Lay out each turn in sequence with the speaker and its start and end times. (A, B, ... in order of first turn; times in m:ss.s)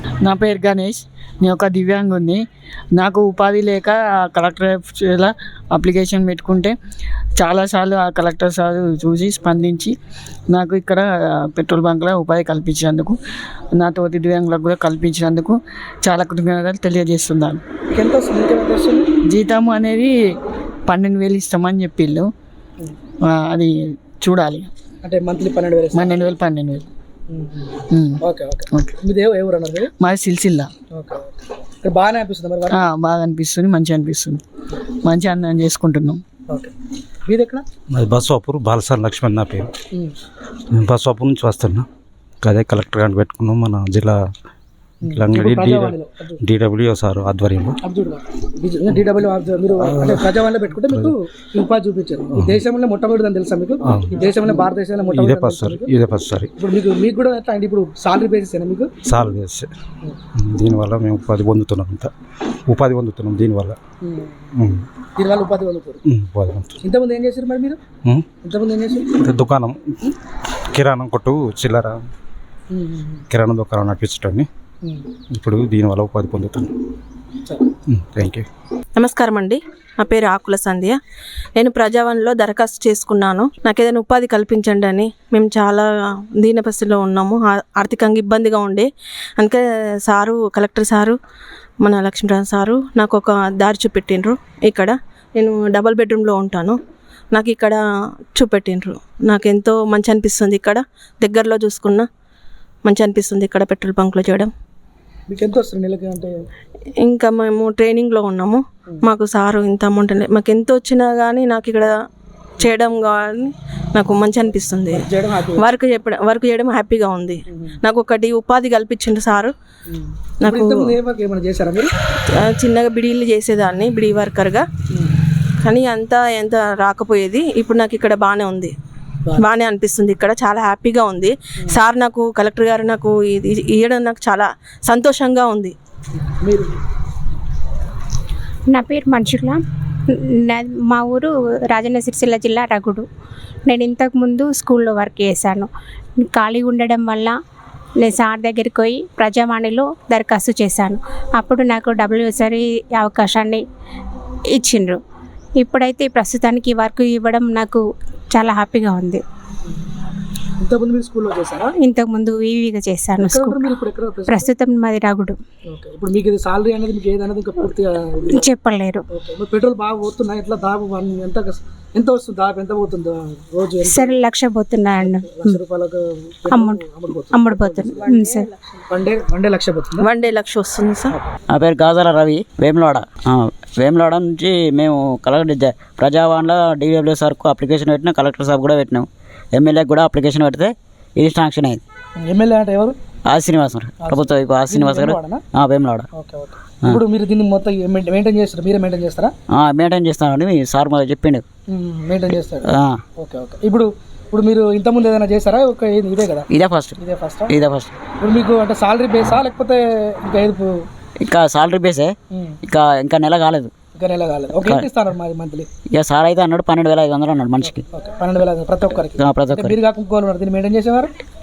0:00.2-0:02.4 A
0:03.0-0:06.7 A
0:07.4-0:10.0 A
0:10.5-0:13.2 A
0:13.7-0:17.6 A
0:17.9-0:19.1 B
0:19.2-0:20.1 A
0:20.9-0:22.3 A
0:23.3-0:24.7 A
0:25.0-0:26.2 B
0:25.9-0:26.9 A
0:27.3-0:29.9 B
0:27.9-0:28.2 A
0:30.0-0:30.7 A
0:30.9-0:32.8 B
0:32.7-0:34.4 A
0:35.0-0:36.2 A
0:37.3-0:37.6 B
0:37.9-0:39.7 C
0:40.7-0:41.9 C
0:42.4-0:44.2 C
0:45.0-0:46.4 B
0:45.1-0:47.8 C
0:47.8-0:55.9 B
0:50.8-0:51.1 C
0:53.9-0:54.2 C
0:55.2-0:56.5 C
0:56.6-0:58.9 B
0:59.1-0:59.7 C
1:00.4-1:02.1 C
1:02.7-1:03.8 C
1:04.0-1:04.5 B
1:04.6-1:04.8 C
1:05.2-1:06.0 B
1:06.1-1:06.8 C
1:06.8-1:07.8 B
1:08.4-1:09.1 B
1:09.1-1:09.8 C
1:10.7-1:12.0 C
1:12.7-1:13.2 B
1:13.3-1:14.5 C
1:14.8-1:15.1 B
1:15.3-1:16.7 C
1:17.5-1:17.7 B
1:17.9-1:18.4 C
1:19.0-1:21.0 D
1:21.6-1:31.2 D
1:31.8-1:36.8 D
1:37.3-1:37.8 D
1:38.3-1:42.0 D
1:42.8-1:44.5 D
1:45.3-1:46.3 B
1:47.0-1:52.0 D
1:52.6-1:55.0 D
1:54.9-1:55.6 B
1:55.6-1:59.5 D
1:57.5-1:57.8 B
1:59.9-2:01.9 B
2:00.4-2:00.9 D
2:02.2-2:04.6 D
2:04.9-2:05.2 B
2:05.6-2:08.7 D
2:09.4-2:15.7 D
2:16.4-2:16.7 B
2:18.7-2:19.6 E
2:20.1-2:23.0 E
2:23.7-2:25.7 E
2:26.2-2:27.4 E
2:28.0-2:33.6 E
2:34.5-2:35.0 E
2:35.6-2:39.2 E
2:40.6-2:41.7 B
2:41.8-2:43.8 E
2:43.2-2:44.5 B
2:44.3-2:45.4 E
2:45.7-2:48.5 B
2:48.3-2:49.0 E
2:49.1-2:54.2 B
2:53.8-2:55.6 E
2:55.0-2:58.0 B
2:56.5-2:58.5 E
2:58.0-2:58.5 D
2:58.9-3:00.1 B
3:00.0-3:01.2 D
3:01.5-3:11.8 F
3:12.2-3:13.0 B
3:13.2-3:16.0 F
3:14.0-3:15.4 B
3:16.1-3:19.3 B
3:19.5-3:21.4 F
3:21.7-3:26.4 B
3:22.7-3:23.0 F
3:26.5-3:27.0 F
3:27.0-3:30.7 B
3:27.5-3:28.0 F
3:31.2-3:33.7 F
3:32.3-3:32.6 B
3:34.0-3:35.7 B
3:34.6-3:34.8 F
3:35.9-3:37.8 F
3:37.6-3:41.1 B
3:38.9-3:39.8 F